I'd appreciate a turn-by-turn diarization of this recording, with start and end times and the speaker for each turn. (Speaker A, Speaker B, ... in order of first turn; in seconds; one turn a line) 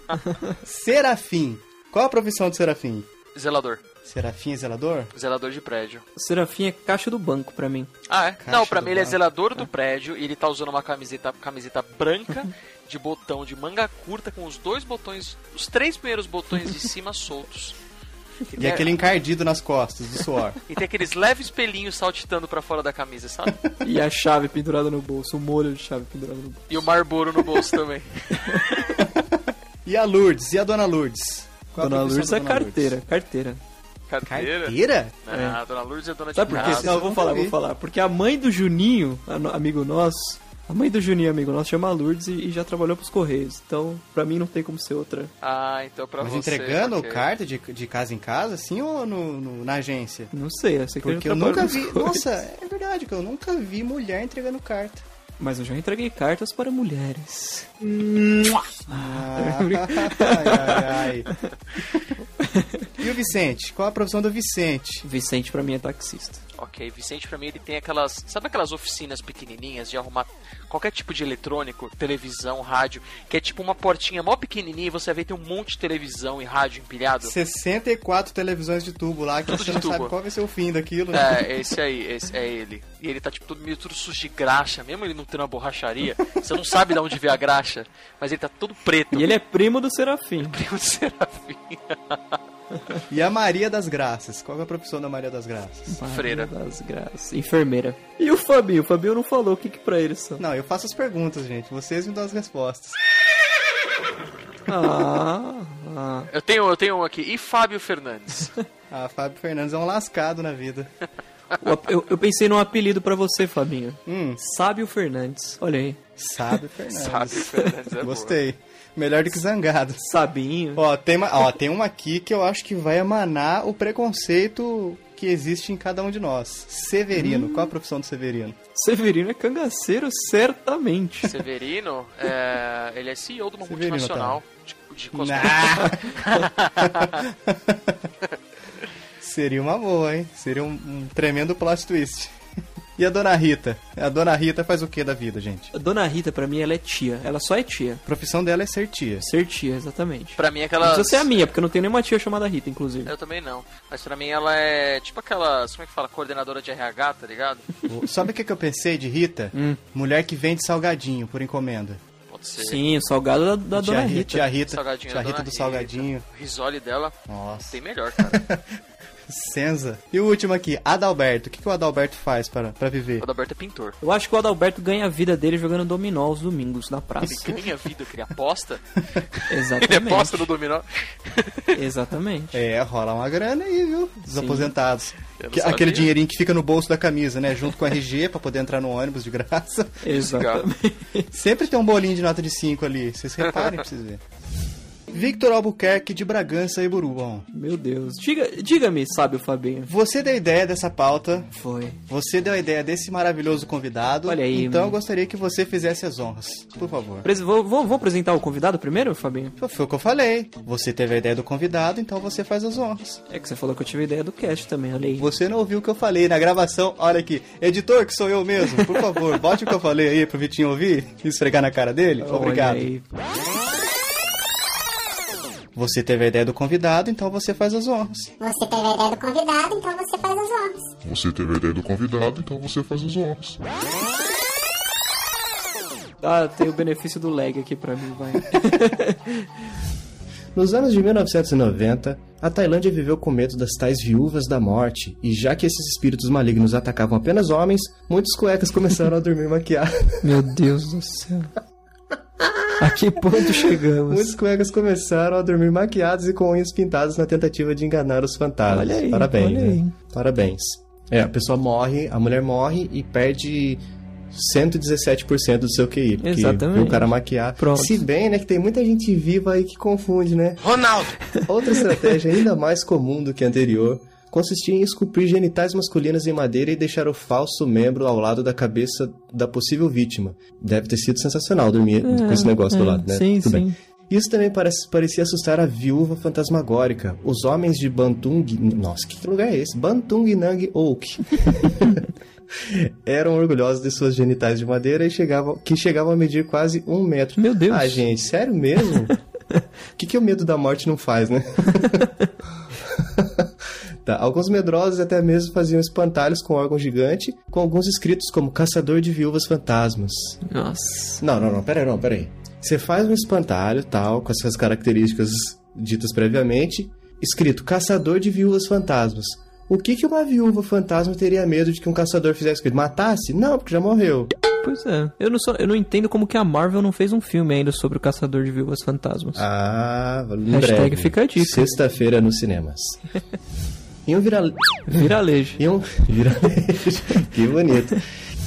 Speaker A: 0.1-0.6
Speaker B: 0.6-3.1
Speaker C: 3.3-3.8
Speaker B: 4.0-5.1
Speaker C: 5.1-6.0
Speaker A: 6.2-7.9
Speaker C: 8.1-17.8
Speaker B: 8.4-9.2
Speaker C: 18.5-19.0
Speaker B: 18.6-20.6
Speaker C: 20.7-23.6
Speaker A: 23.8-26.9
Speaker C: 26.7-28.7
Speaker A: 28.4-29.0
Speaker B: 29.8-32.9
Speaker A: 31.8-33.6
Speaker C: 34.1-37.1
Speaker B: 34.2-35.4
Speaker A: 35.3-35.6
Speaker A: 36.3-45.3
Speaker B: 36.5-37.5
Speaker C: 45.4-47.3
Speaker B: 46.2-50.3
Speaker A: 50.3-52.2
Speaker B: 51.0-55.0
Speaker A: 55.4-61.5
Speaker B: 58.9-61.3
Speaker A: 62.4-62.9
Speaker B: 63.0-65.0
Speaker A: 65.0-66.4
Speaker C: 66.5-77.3
Speaker B: 77.2-81.5
Speaker C: 79.5-80.1
Speaker C: 81.1-89.3
Speaker A: 89.1-90.6
Speaker C: 90.4-92.4
Speaker B: 93.1-96.0
Speaker A: 95.9-100.4
Speaker C: 96.0-96.5
Speaker B: 100.4-103.0
Speaker A: 104.7-106.3
Speaker C: 106.3-108.5
Speaker B: 108.9-110.9
Speaker A: 111.6-116.0
Speaker B: 114.1-114.4
Speaker B: 116.2-120.0
Speaker C: 116.9-118.4
Speaker A: 120.0-120.8
Speaker B: 120.8-128.6
Speaker A: 127.1-127.7
Speaker A: 128.8-131.3
Speaker C: 131.2-137.2
Speaker B: 133.6-134.4
Speaker B: 135.1-137.9
Speaker B: 139.2-142.3
Speaker B: 143.0-145.7
Speaker A: 145.7-148.0
Speaker B: 148.1-149.2
Speaker A: 149.2-153.1
Speaker C: 150.3-151.4
Speaker C: 153.1-157.8
Speaker B: 157.9-162.0
Speaker A: 159.5-159.8
Speaker C: 162.2-162.8
Speaker A: 162.6-164.4
Speaker B: 163.7-166.2
Speaker C: 164.6-168.4
Speaker B: 167.3-168.6
Speaker B: 169.3-173.2
Speaker C: 173.2-174.0
Speaker A: 174.0-177.6
Speaker B: 177.2-177.7
Speaker C: 177.3-178.8
Speaker C: 179.4-181.7
Speaker A: 179.5-180.5
Speaker A: 181.7-182.6
Speaker B: 182.5-190.0
Speaker A: 184.3-184.7
Speaker C: 185.2-186.1
Speaker A: 190.0-191.3
Speaker C: 190.1-190.6
Speaker B: 191.3-194.2
Speaker C: 193.4-193.8
Speaker B: 195.1-197.4
Speaker A: 197.5-199.9
Speaker B: 199.9-201.5
Speaker A: 201.5-202.0
Speaker B: 202.1-207.2
Speaker A: 204.2-205.0
Speaker A: 207.2-209.5
Speaker B: 209.6-213.2
Speaker A: 213.3-215.3
Speaker B: 215.2-222.9
Speaker A: 222.2-223.1
Speaker B: 225.7-228.3
Speaker D: 228.4-230.8
Speaker E: 231.0-233.6
Speaker A: 236.2-239.5
Speaker F: 240.5-250.2
Speaker A: 250.2-251.5
Speaker A: 252.8-254.3
Speaker F: 254.1-270.8
Speaker A: 258.7-259.9
Speaker A: 266.2-268.0
Speaker F: 271.4-291.9
Speaker A: 282.0-283.7
Speaker F: 292.5-299.1
Speaker A: 297.4-298.0
Speaker F: 300.0-302.1
Speaker F: 302.9-303.5
Speaker F: 304.0-310.4
Speaker A: 310.4-311.2
Speaker F: 311.2-324.3
Speaker A: 324.6-329.4
Speaker F: 329.3-333.0
Speaker A: 330.5-331.7
Speaker F: 334.1-338.0
Speaker A: 334.9-335.6